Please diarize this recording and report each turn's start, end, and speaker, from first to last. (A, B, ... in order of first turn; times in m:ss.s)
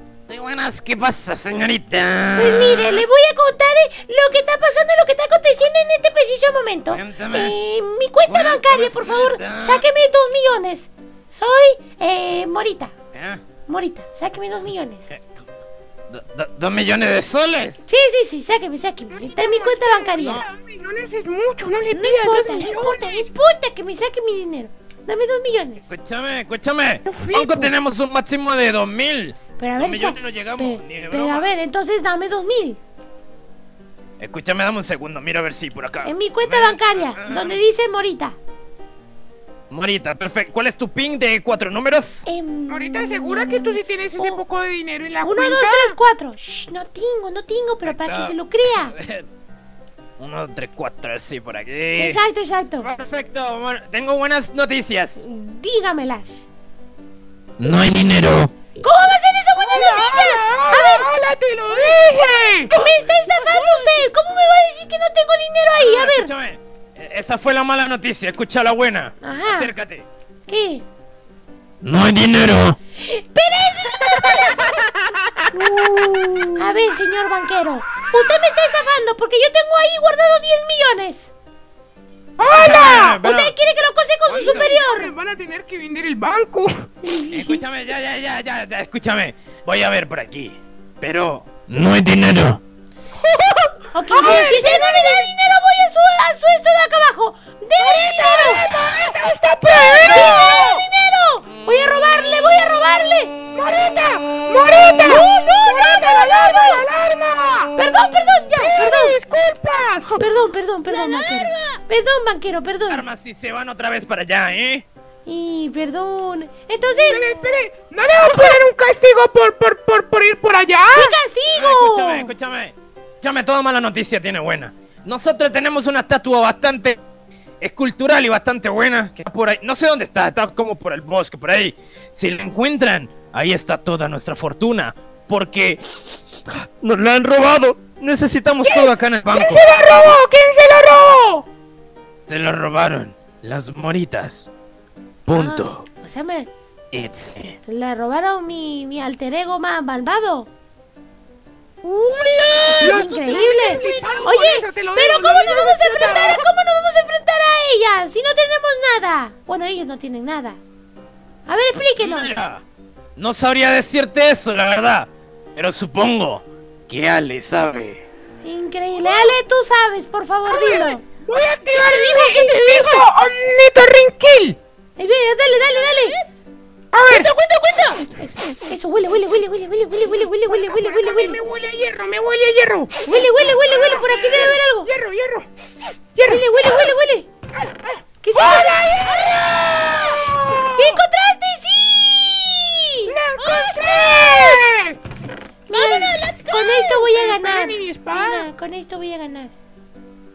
0:00.3-0:03.0 A
0:02.3-0:12.9 B
0:06.9-0:07.6 A
0:08.3-0:09.8 A
0:13.1-0:13.4 A
0:13.7-0:15.1 B
0:16.1-0:17.8 A
0:17.9-0:20.4 B
0:19.1-0:23.3 C
0:21.9-0:25.8 B
0:25.9-0:31.5 A
0:27.0-0:27.7 C
0:29.6-0:32.8 B
0:34.2-0:37.6 A
0:36.0-0:38.4 B
0:39.7-0:42.2 A
0:42.2-0:44.4 B
0:42.7-0:45.9 C
0:45.2-0:49.0 B
0:47.8-0:49.3 A
0:50.2-0:52.2 A
0:52.0-0:52.9 B
0:52.8-0:55.2 A
0:55.2-0:56.4 B
0:57.6-0:58.5 A
0:58.8-1:01.1 B
0:59.6-1:02.7 C
1:02.6-1:06.3 B
1:03.3-1:04.0 D
1:05.8-1:10.0 A
1:09.2-1:09.7 B
1:10.5-1:10.8 B
1:11.8-1:12.8 A
1:13.0-1:14.5 B
1:14.2-1:15.4 C
1:16.0-1:16.4 D
1:16.6-1:21.3 B
1:18.1-1:18.5 C
1:22.4-1:23.2 C
1:22.4-1:23.5 A
1:23.2-1:25.1 B
1:24.3-1:24.7 A
1:24.4-1:26.9 C
1:27.0-1:27.6 B
1:27.3-1:32.6 A
1:33.3-1:33.7 D
1:33.9-1:38.6 B
1:34.1-1:35.3 C
1:37.8-1:40.8 C
1:40.0-1:43.3 B
1:43.5-1:47.7 C
1:45.0-1:46.8 B
1:47.8-1:49.2 B
1:48.6-1:50.2 C
1:50.2-1:53.1 B
1:50.9-1:51.8 D
1:52.9-1:54.8 A
1:55.2-1:57.3 B
1:57.0-2:01.2 C
1:58.2-1:58.6 B
2:00.9-2:02.3 B
2:01.5-2:07.0 A
2:07.6-2:15.8 A
2:16.5-2:20.1 A
2:18.6-2:21.4 C
2:22.3-2:24.5 A
2:25.2-2:25.8 A
2:25.3-2:26.5 B
2:26.9-2:27.6 A
2:27.6-2:30.5 B
2:31.8-2:34.3 D
2:32.7-2:40.6 B
2:32.8-2:36.4 C
2:41.5-2:42.4 B
2:42.0-2:42.6 A
2:43.2-2:48.0 A
2:48.4-2:51.0 B
2:50.5-2:54.6 C
2:51.7-2:53.1 D
2:55.0-2:56.2 B
2:55.6-2:56.2 D
2:56.9-2:57.3 C
2:57.1-2:58.0 D
2:58.1-3:01.4 B
3:00.5-3:05.5 C
3:03.0-3:04.9 B
3:06.1-3:06.9 C
3:06.2-3:07.2 B
3:07.5-3:11.0 C
3:08.2-3:08.9 B
3:10.7-3:13.1 B
3:13.1-3:15.0 C
3:13.4-3:14.6 D
3:15.7-3:19.5 B
3:15.7-3:17.2 D
3:17.1-3:18.4 C